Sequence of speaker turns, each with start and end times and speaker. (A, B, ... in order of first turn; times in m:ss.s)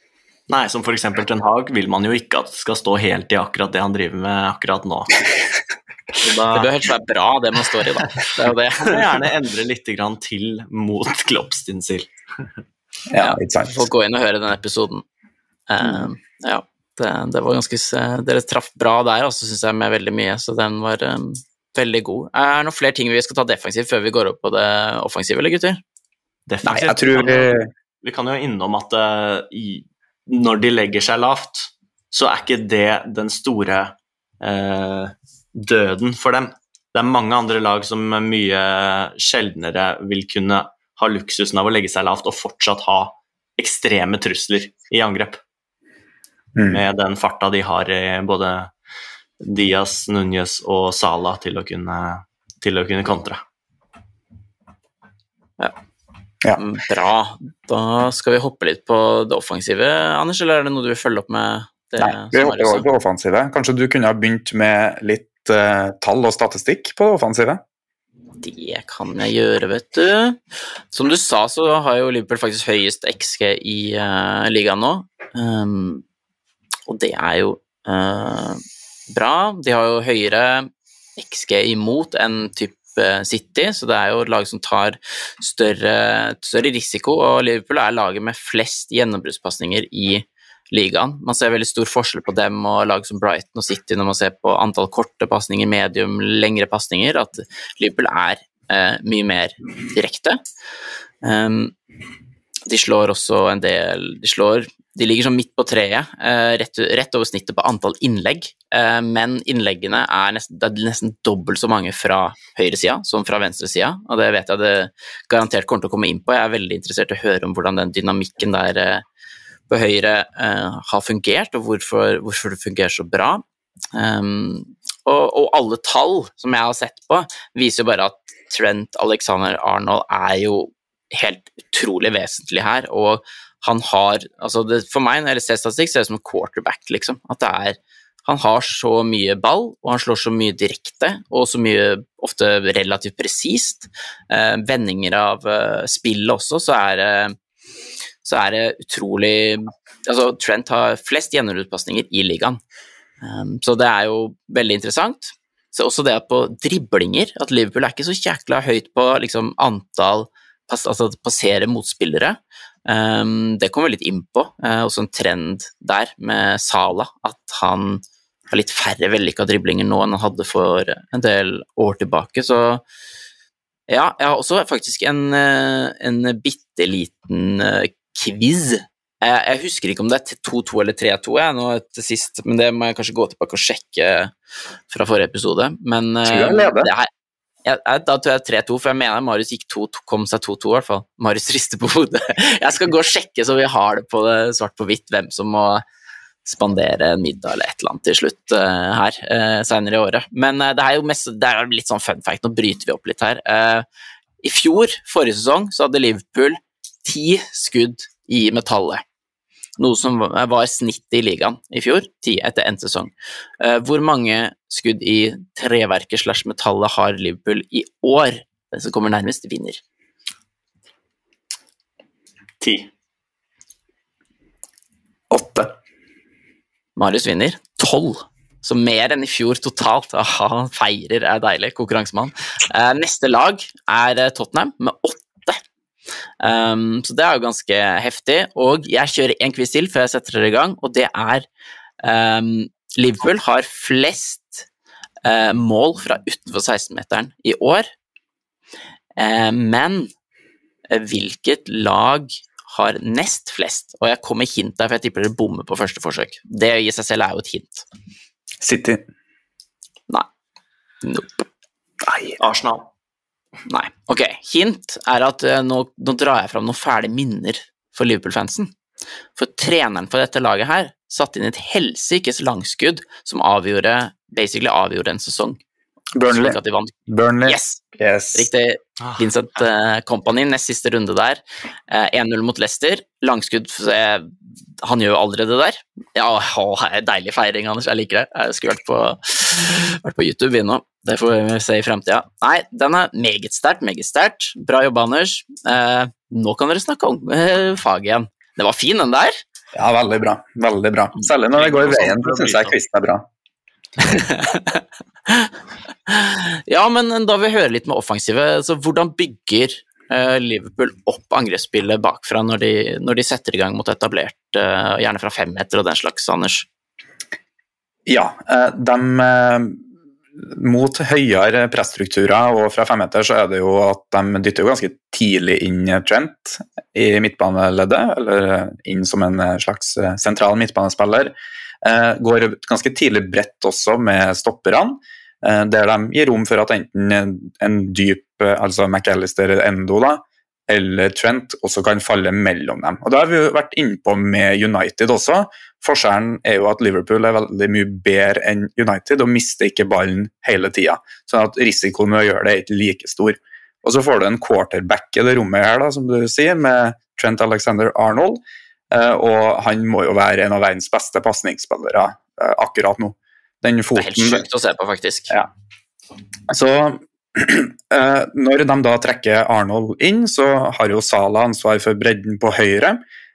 0:00.5-0:05.3 A
0:06.2-0:06.7 A
0:06.5-0:09.0 B
0:08.8-0:12.1 A
0:13.1-0:13.9 C
0:13.2-0:15.0 B
0:15.7-0:25.8 B
0:26.5-0:45.4 A
0:26.6-0:27.7 C
0:46.6-0:46.8 C
0:46.7-0:48.7 A
0:49.4-0:53.4 A
0:56.6-1:02.9 B
1:02.0-1:07.6 C
1:08.4-1:10.4 B
1:10.9-1:16.0 B
1:16.9-1:40.4 B
1:41.2-1:41.8 B
1:42.7-1:59.0 B
1:59.7-2:03.4 B
2:03.9-2:27.4 B
2:28.2-2:32.6 B
2:33.2-2:52.8 B
2:53.9-3:04.3 B
3:04.9-3:07.1 B
3:06.3-3:06.9 C
3:07.6-3:15.8 B
3:16.4-3:23.8 B
3:24.4-3:29.0 B
3:29.8-3:39.8 B
3:42.6-3:42.9 A
3:45.3-3:45.7 C
3:47.0-3:55.6 B
3:56.4-4:01.5 B
4:02.0-4:04.7 B
4:05.2-4:07.9 B
4:09.2-4:10.1 B
4:10.9-4:17.9 B
4:18.6-4:19.0 C
4:21.0-4:21.4 B
4:22.0-4:22.4 C
4:22.4-4:22.9 A
4:23.7-4:28.7 B
4:29.4-4:35.6 B
4:36.2-4:38.5 C
4:36.3-4:36.9 B
4:37.5-4:37.8 B
4:38.3-4:59.4 B
4:59.7-5:03.3 C
5:01.5-5:02.8 A
5:04.0-5:05.5 B
5:06.1-5:16.7 B
5:18.1-5:19.8 C
5:20.4-6:04.5 C
6:04.0-6:05.4 B
6:06.5-6:13.0 C